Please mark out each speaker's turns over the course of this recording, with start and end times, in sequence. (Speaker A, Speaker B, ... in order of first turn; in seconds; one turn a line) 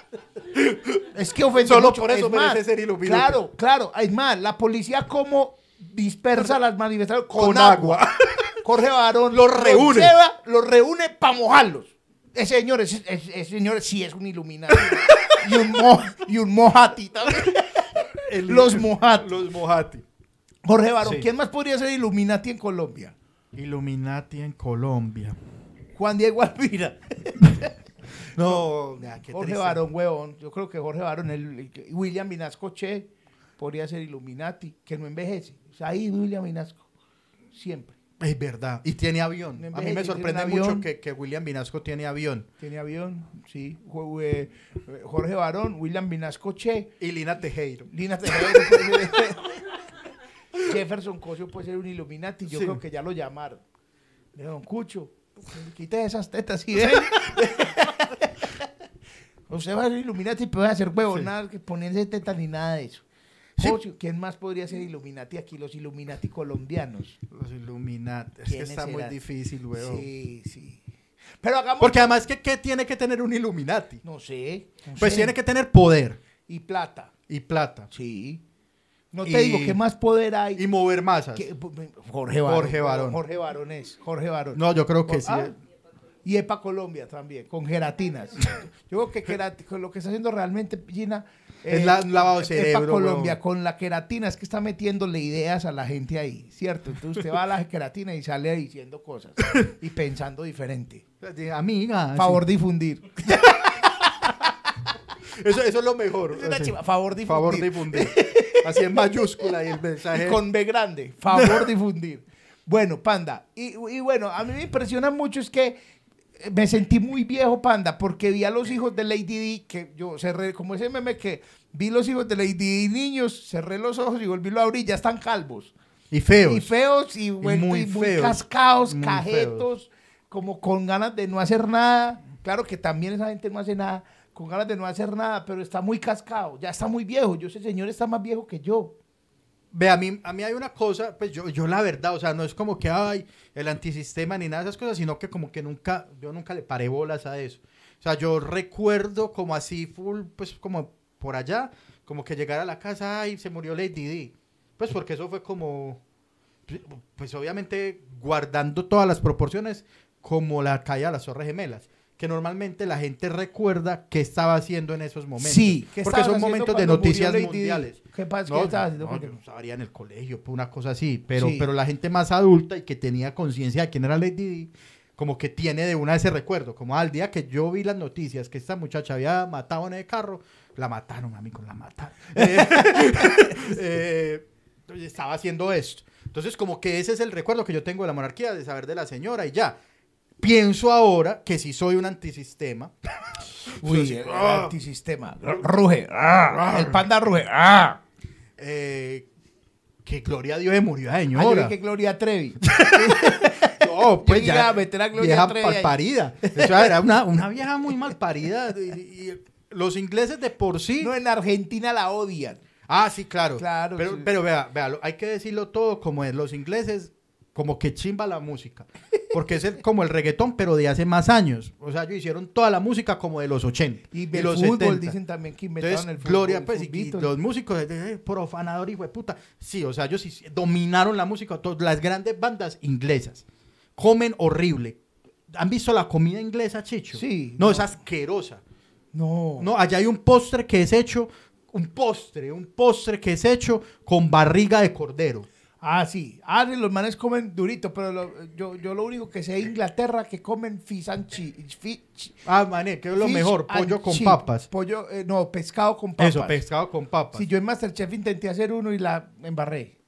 Speaker A: 0.5-3.4
Speaker B: 1.1-8.1
Speaker A: 7.4-8.6
Speaker B: 8.6-19.4
Speaker A: 9.3-10.1
Speaker A: 14.8-15.6
Speaker A: 18.1-20.0
Speaker B: 20.6-23.1
Speaker A: 23.5-25.4
Speaker B: 25.9-27.7
Speaker A: 28.3-29.8
Speaker B: 28.4-28.6
Speaker B: 29.2-36.9
Speaker B: 37.5-37.9
Speaker A: 38.2-42.5
Speaker B: 39.5-40.9
Speaker B: 42.6-46.9
Speaker A: 47.0-49.2
Speaker B: 47.9-49.6
Speaker B: 50.6-53.6
Speaker A: 52.5-52.8
Speaker B: 54.3-58.6
Speaker B: 59.5-63.0
Speaker B: 63.6-67.2
Speaker A: 67.3-70.0
Speaker B: 68.4-69.2
Speaker B: 69.7-70.8
Speaker B: 71.4-72.1
Speaker A: 71.8-74.0
Speaker B: 74.0-75.3
Speaker A: 75.0-76.2
Speaker B: 76.5-77.1
Speaker A: 77.3-77.9
Speaker B: 77.9-78.4
Speaker B: 79.1-80.6
Speaker A: 79.2-79.8
Speaker A: 80.5-81.5
Speaker B: 81.3-85.5
Speaker A: 82.4-83.2
Speaker A: 84.5-85.5
Speaker B: 86.2-101.0
Speaker A: 91.7-93.4
Speaker A: 101.2-102.4
Speaker B: 102.1-103.5
Speaker A: 103.2-104.3
Speaker A: 105.2-110.4
Speaker B: 106.3-109.5
Speaker B: 110.1-115.8
Speaker A: 111.3-111.7
Speaker B: 116.4-125.7
Speaker A: 126.1-126.7
Speaker B: 126.4-138.9
Speaker A: 127.4-129.7
Speaker A: 139.7-156.0
Speaker A: 156.7-189.8
Speaker B: 165.4-169.4
Speaker B: 171.3-171.7
Speaker B: 182.4-183.5
Speaker A: 190.4-194.7
Speaker B: 193.8-198.0
Speaker A: 196.5-197.0
Speaker A: 198.6-199.2
Speaker A: 200.0-201.7
Speaker B: 201.3-206.9
Speaker A: 202.7-211.1
Speaker B: 211.0-212.6
Speaker A: 212.9-225.2
Speaker B: 213.6-214.3
Speaker B: 224.1-227.3
Speaker A: 225.8-233.4
Speaker A: 233.9-235.0
Speaker A: 235.5-238.6
Speaker B: 237.1-237.9
Speaker B: 239.1-239.7
Speaker A: 239.6-245.5
Speaker B: 245.8-252.4
Speaker A: 252.4-254.7
Speaker B: 253.1-256.6
Speaker A: 256.2-257.5
Speaker B: 257.3-259.9